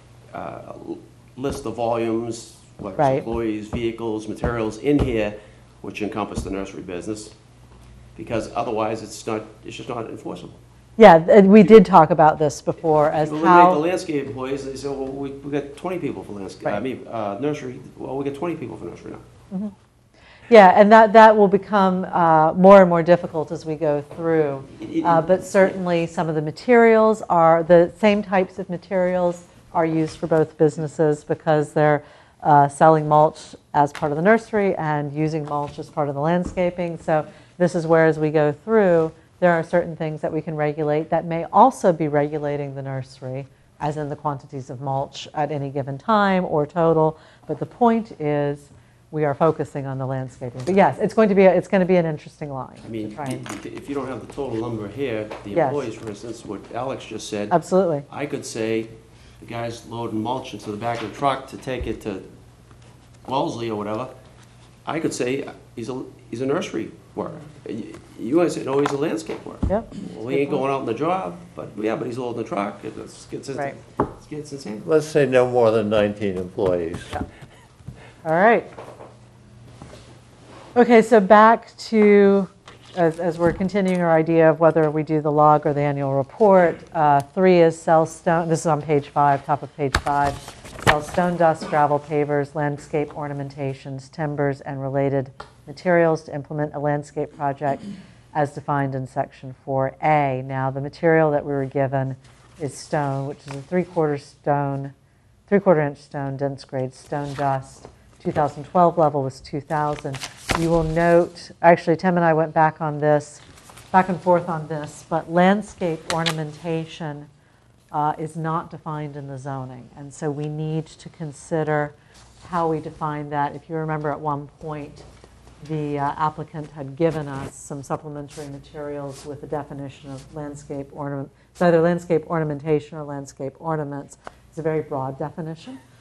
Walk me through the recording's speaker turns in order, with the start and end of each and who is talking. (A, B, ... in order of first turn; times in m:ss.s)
0:00.3-0:07.4 A
0:03.0-0:03.2 B
0:08.1-0:10.6 A
0:11.0-0:13.8 B
0:12.9-0:19.2 A
0:20.5-0:53.4 B
0:24.7-0:25.8 A
0:52.8-1:02.3 A
0:55.5-0:55.8 B
0:57.5-0:58.0 B
1:03.2-1:04.1 A
1:04.8-1:14.9 A
1:09.7-1:10.6 B
1:14.8-1:17.1 C
1:18.2-1:18.7 B
1:20.8-1:44.9 B
1:45.5-1:57.3 B
1:57.9-2:05.0 B
2:05.6-2:15.8 B